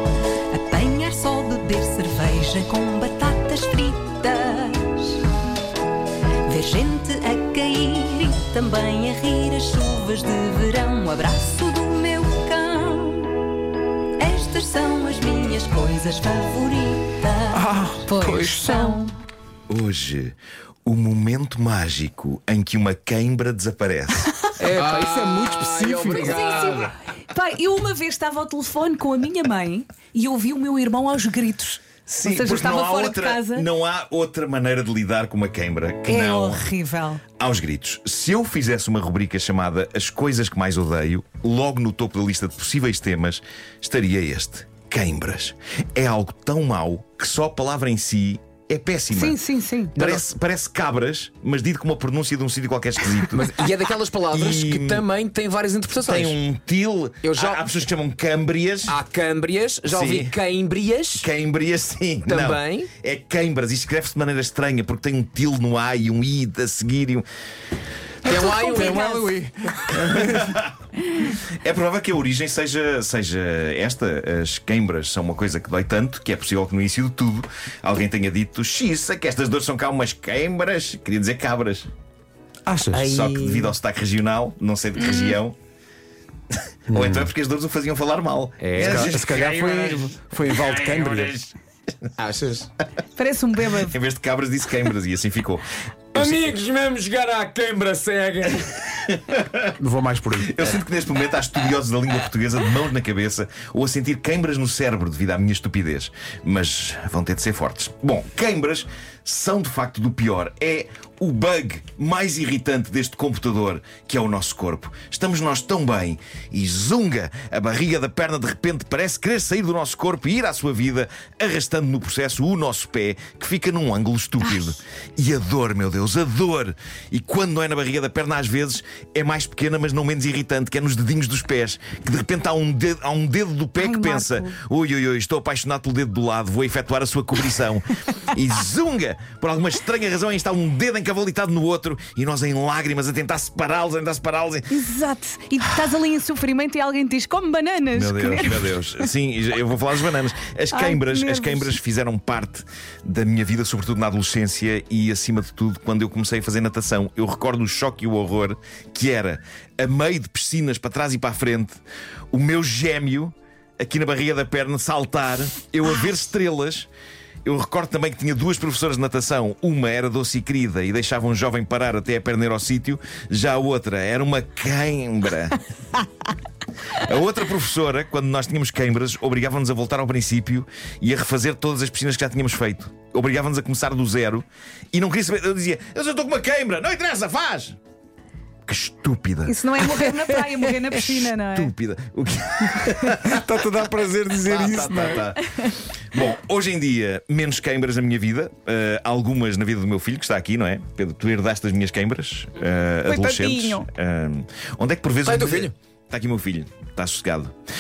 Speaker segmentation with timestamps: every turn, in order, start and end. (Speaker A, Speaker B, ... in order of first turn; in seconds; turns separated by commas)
Speaker A: 0.5-5.2, Speaker A: 6.5-13.3, Speaker A: 14.2-19.1, Speaker B: 17.5-18.9, Speaker C: 18.3-19.0, Speaker D: 19.7-24.3, Speaker E: 24.6-26.9, Speaker B: 24.6-26.4, Speaker C: 24.8-25.1, Speaker C: 26.2-33.7, Speaker D: 32.0-36.7, Speaker C: 36.1-37.2, Speaker D: 37.4-49.4, Speaker C: 49.1-50.0, Speaker D: 50.0-53.5, Speaker E: 50.0-50.2, Speaker E: 53.3-56.4, Speaker D: 54.3-55.1, Speaker D: 56.0-59.0, Speaker E: 57.2-57.7, Speaker E: 58.9-61.3, Speaker D: 59.9-60.4, Speaker D: 61.2-67.2, Speaker E: 62.3-62.9, Speaker E: 68.2-69.3, Speaker C: 68.3-69.2, Speaker B: 68.3-70.4, Speaker D: 70.0-70.7, Speaker D: 71.2-81.9, Speaker B: 82.7-83.1, Speaker E: 82.9-83.7, Speaker D: 83.0-85.6, Speaker D: 86.5-91.5, Speaker B: 86.9-87.3, Speaker E: 88.6-89.2, Speaker B: 88.8-91.3, Speaker E: 92.2-92.7, Speaker C: 93.2-94.0, Speaker D: 93.7-96.5, Speaker E: 96.1-98.8, Speaker D: 99.1-99.7, Speaker B: 99.8-100.6, Speaker D: 100.4-144.8, Speaker C: 133.8-134.5, Speaker C: 144.7-148.8, Speaker D: 147.9-161.8, Speaker C: 150.7-151.8, Speaker D: 162.3-166.9, Speaker D: 167.4-175.6, Speaker D: 176.9-187.8, Speaker D: 188.7-189.6, Speaker C: 189.5-191.7, Speaker D: 190.9-193.4, Speaker C: 192.8-193.1, Speaker B: 193.2-195.2, Speaker D: 194.5-207.6, Speaker C: 195.2-195.7, Speaker C: 203.1-203.9, Speaker E: 205.2-205.7